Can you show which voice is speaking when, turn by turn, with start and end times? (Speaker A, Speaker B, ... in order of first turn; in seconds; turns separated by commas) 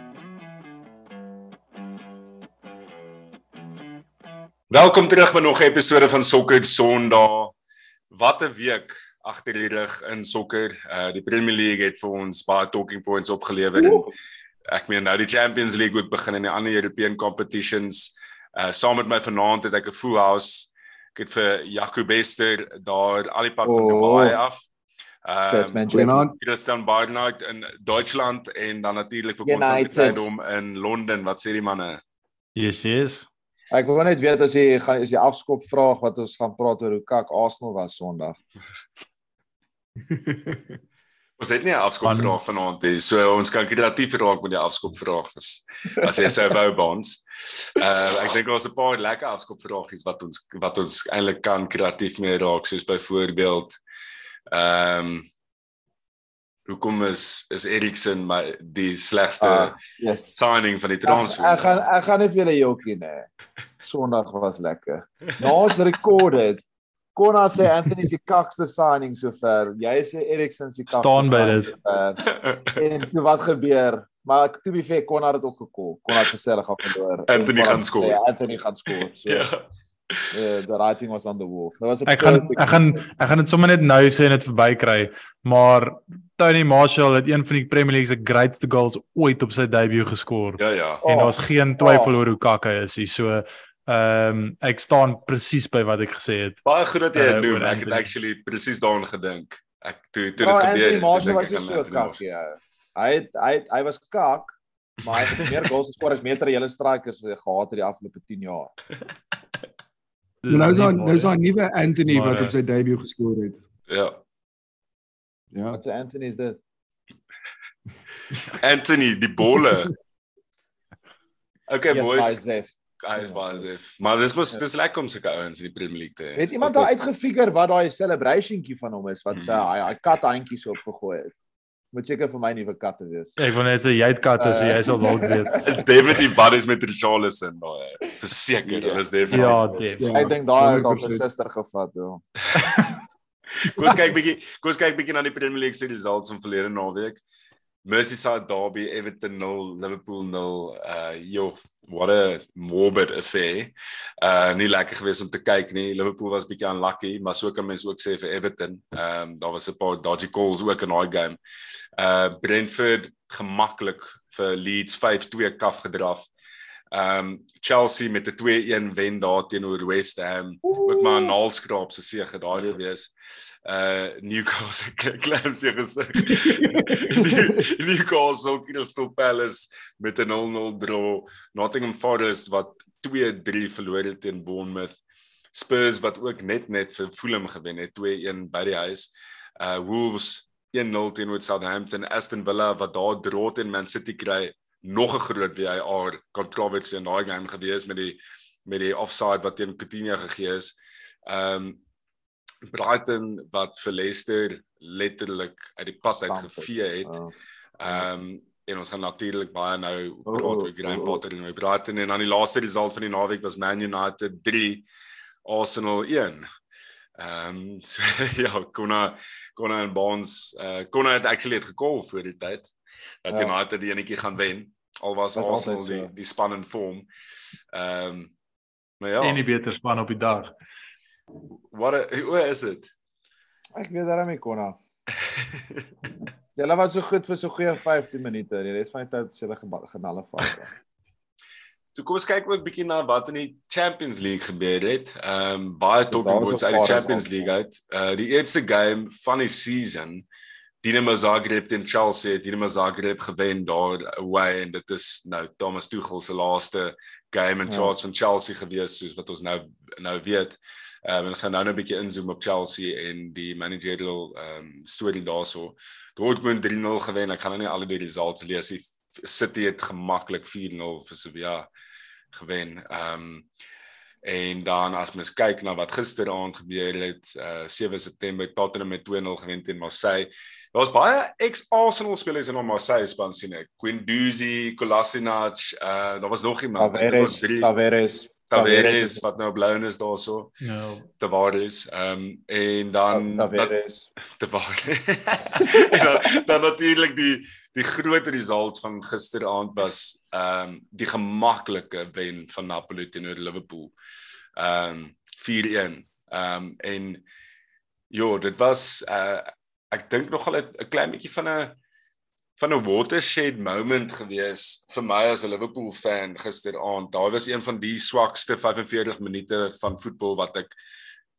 Speaker A: 4.7-7.5, Speaker A: 8.1-14.1, Speaker B: 13.8-14.0, Speaker A: 14.7-24.7, Speaker B: 23.6-24.4, Speaker A: 25.2-32.0, Speaker B: 25.4-26.3, Speaker C: 25.9-26.4, Speaker B: 29.4-30.2, Speaker D: 32.5-33.3, Speaker B: 33.7-38.4, Speaker C: 40.1-40.7, Speaker A: 41.4-53.8, Speaker D: 42.0-42.4, Speaker A: 54.5-55.2, Speaker A: 56.7-59.8, Speaker B: 59.4-60.4, Speaker A: 60.4-61.8, Speaker B: 61.1-63.3, Speaker B: 63.8-66.6, Speaker B: 67.2-79.5, Speaker D: 70.9-71.7, Speaker A: 72.3-72.8, Speaker A: 77.3-78.2, Speaker A: 79.3-80.3, Speaker B: 80.3-83.0, Speaker D: 82.1-96.6, Speaker A: 90.6-91.0, Speaker B: 91.0-92.2, Speaker A: 96.7-102.2, Speaker D: 97.2-98.0, Speaker B: 100.4-108.7, Speaker A: 105.1-105.6, Speaker D: 110.4-111.3, Speaker C: 110.5-113.6, Speaker D: 112.1-112.5, Speaker A: 113.9-114.2, Speaker C: 115.5-115.8, Speaker B: 115.7-116.6, Speaker A: 118.5-119.9, Speaker A: 121.7-122.4, Speaker B: 121.9-123.7, Speaker A: 123.0-126.9, Speaker B: 126.4-131.3, Speaker A: 129.3-129.7, Speaker B: 131.9-133.3, Speaker D: 133.4-135.6, Speaker B: 134.4-135.8, Speaker A: 135.6-140.1, Speaker B: 138.7-139.6, Speaker D: 139.3-140.2, Speaker C: 140.0-141.2, Speaker B: 140.1-142.2, Speaker A: 143.6-147.2, Speaker A: 147.8-161.4, Speaker A: 162.0-166.3, Speaker A: 166.9-173.1, Speaker B: 170.7-171.3, Speaker A: 173.7-185.0, Speaker A: 185.5-201.8, Speaker A: 202.7-207.2, Speaker B: 206.1-207.3, Speaker A: 207.8-214.9, Speaker B: 210.3-211.2, Speaker A: 215.4-216.4, Speaker A: 217.2-227.1, Speaker B: 223.3-223.5, Speaker B: 225.3-226.1, Speaker A: 227.7-228.3, Speaker A: 229.0-229.4, Speaker D: 229.2-230.5, Speaker A: 231.7-232.9, Speaker B: 233.8-234.8, Speaker A: 235.5-235.8, Speaker B: 236.6-240.7, Speaker A: 241.9-250.3, Speaker B: 246.1-247.3, Speaker A: 250.8-271.7, Speaker B: 257.7-257.9, Speaker A: 272.3-273.5, Speaker A: 274.2-287.7, Speaker B: 286.8-289.2, Speaker A: 288.5-290.6, Speaker D: 290.6-291.1, Speaker A: 291.2-293.7, Speaker B: 293.1-294.1, Speaker A: 294.3-303.9, Speaker A: 304.6-307.2, Speaker A: 308.1-311.8, Speaker A: 312.6-320.7